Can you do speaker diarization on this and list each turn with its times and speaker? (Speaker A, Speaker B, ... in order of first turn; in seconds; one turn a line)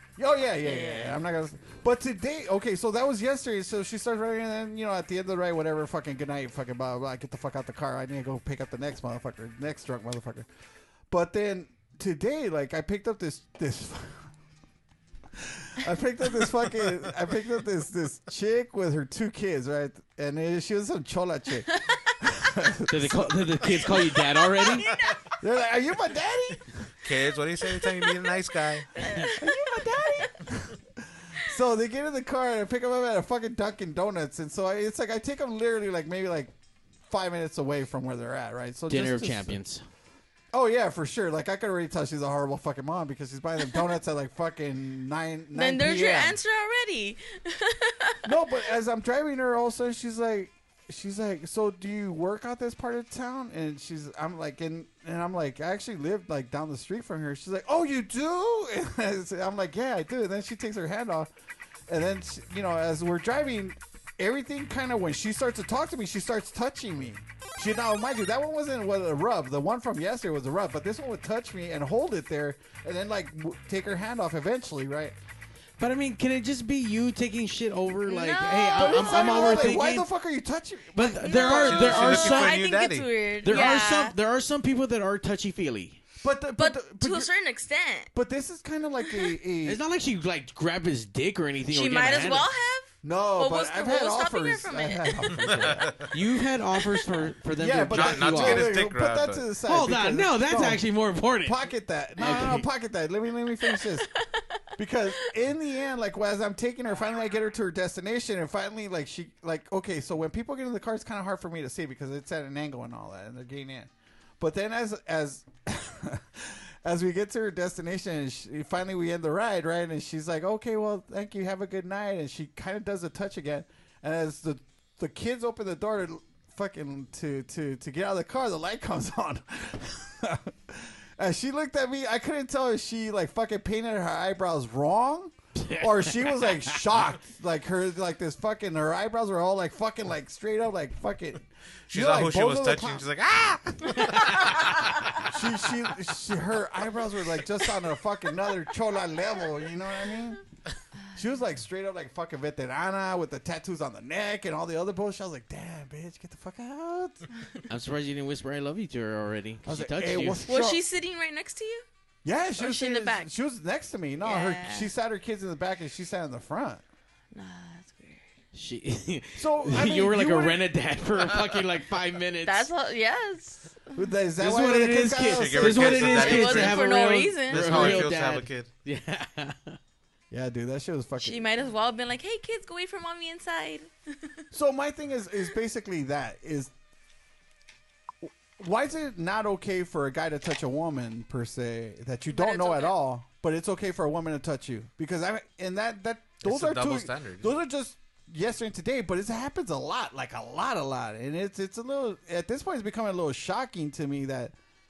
Speaker A: 0.2-10.5
Speaker B: 0.6-1.2
Speaker A: 11.1-14.3
Speaker A: 15.4-23.7
Speaker C: 22.9-24.9
Speaker B: 23.8-25.2
Speaker A: 25.4-26.7
Speaker D: 27.0-28.9
Speaker B: 29.0-30.3
Speaker A: 29.4-36.5
Speaker A: 37.1-39.6
Speaker C: 38.9-39.8
Speaker A: 40.5-46.4
Speaker B: 45.5-48.2
Speaker A: 48.2-61.3
Speaker A: 61.9-75.2
Speaker C: 75.8-80.1
Speaker B: 78.0-79.8
Speaker A: 78.8-82.4
Speaker C: 80.9-82.6
Speaker B: 81.2-84.2
Speaker D: 81.5-83.1
Speaker C: 83.4-86.0
Speaker A: 86.2-87.3
Speaker B: 86.6-88.1
Speaker A: 88.1-89.8
Speaker B: 89.0-89.3
Speaker C: 89.6-92.5
Speaker B: 91.7-95.3
Speaker A: 93.0-96.0
Speaker D: 95.4-96.1
Speaker C: 96.1-98.8
Speaker A: 97.6-100.8
Speaker D: 97.9-99.5
Speaker C: 99.6-101.7
Speaker A: 101.4-104.1
Speaker C: 102.2-102.7
Speaker B: 103.7-104.0
Speaker A: 104.8-143.1
Speaker C: 135.6-136.9
Speaker D: 141.9-144.4
Speaker A: 145.2-150.4
Speaker A: 151.2-157.2
Speaker C: 157.7-160.4
Speaker A: 159.7-160.8
Speaker B: 160.4-161.8
Speaker A: 162.2-166.8
Speaker B: 162.6-163.3
Speaker B: 164.2-164.9
Speaker B: 167.3-168.3
Speaker C: 168.5-172.7
Speaker A: 169.3-170.6
Speaker B: 172.4-174.0
Speaker A: 173.9-176.4
Speaker C: 174.4-179.8
Speaker D: 175.2-176.9
Speaker B: 176.1-178.1
Speaker D: 177.5-178.7
Speaker A: 180.3-181.4
Speaker B: 181.2-183.9
Speaker A: 184.5-186.7
Speaker A: 188.2-204.5
Speaker B: 192.3-193.0
Speaker D: 196.4-197.6